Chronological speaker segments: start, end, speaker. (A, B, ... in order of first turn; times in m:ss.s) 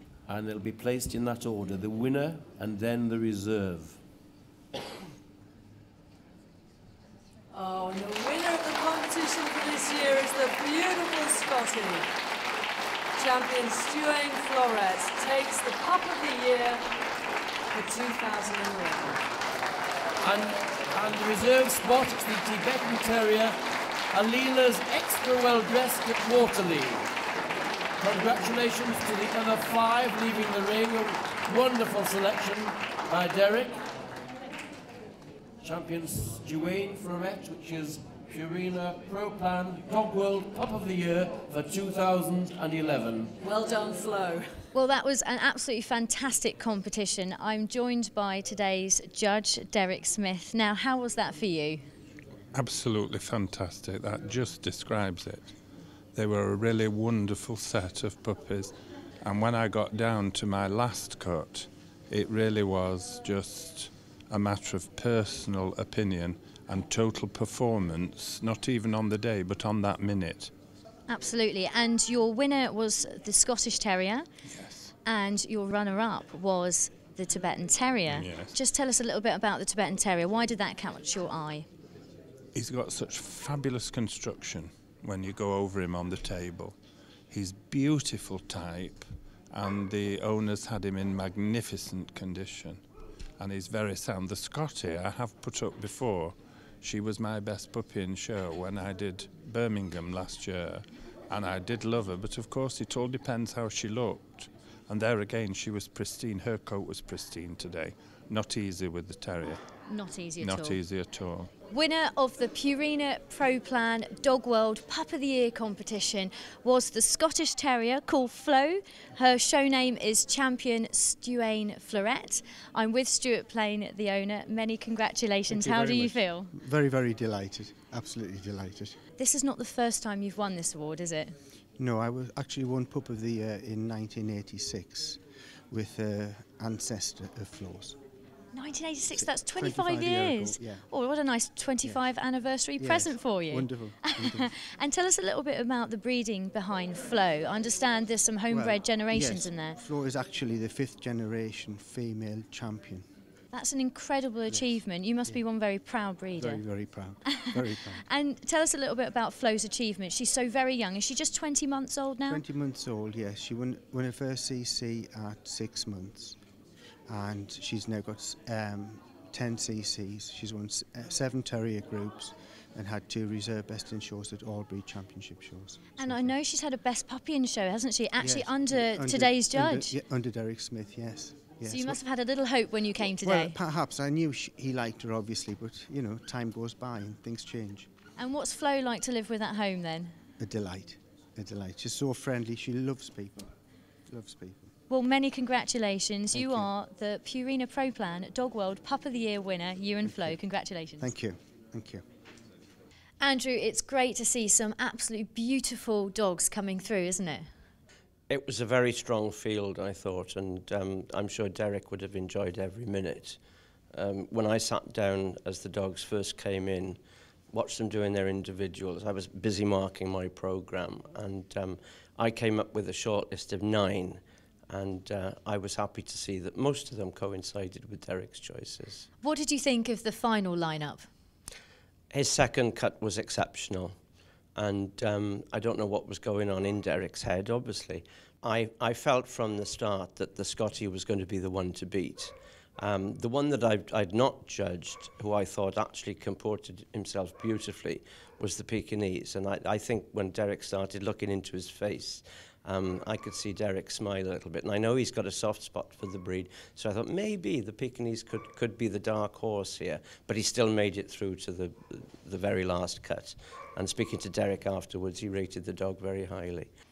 0:00.3-0:04.0 A
0:07.5-0:12.1 B
0:13.2-0:16.8 B
0:17.7-0:19.2 B
0:20.2-0:23.6 A
0:24.1-0:27.0 A
0:28.0-0:33.8 A
0:35.6-0:43.3 A
0:43.4-0:44.5 B
0:44.7-0:51.8 C
0:52.5-0:55.5 D
0:56.1-1:10.5 D
1:11.1-1:14.3 C
1:14.5-1:14.9 D
1:15.0-1:21.7 C
1:18.1-1:18.6 D
1:22.6-1:26.8 D
1:27.3-1:32.8 D
1:33.4-1:49.6 D
1:49.9-1:50.8 C
1:50.4-1:51.5 D
1:51.7-2:06.5 C
2:05.5-2:09.0 E
2:09.2-2:11.3 C
2:11.8-2:18.0 E
2:18.5-2:29.8 C
2:19.1-2:20.8 E
2:22.8-2:24.5 E
2:28.5-2:33.0 E
2:33.5-2:36.6 C
2:36.4-2:38.0 E
2:38.0-2:42.4 C
2:42.2-2:46.4 E
2:47.1-2:56.4 E
2:56.0-2:59.9 C
2:58.2-3:02.0 E
3:01.6-3:03.6 C
3:03.2-3:07.9 E
3:08.2-3:10.2 C
3:10.4-3:13.5 E
3:14.1-3:14.7 E
3:14.9-3:21.1 C
3:16.3-3:16.7 E
3:20.0-3:20.4 E
3:21.0-3:22.0 E
3:23.2-3:27.5 C
3:28.3-3:33.4 F
3:33.9-3:37.0 F
3:37.5-3:44.2 F
3:44.7-3:49.1 F
3:49.2-3:51.1 C
3:52.1-3:54.0 F
3:54.6-4:26.7 F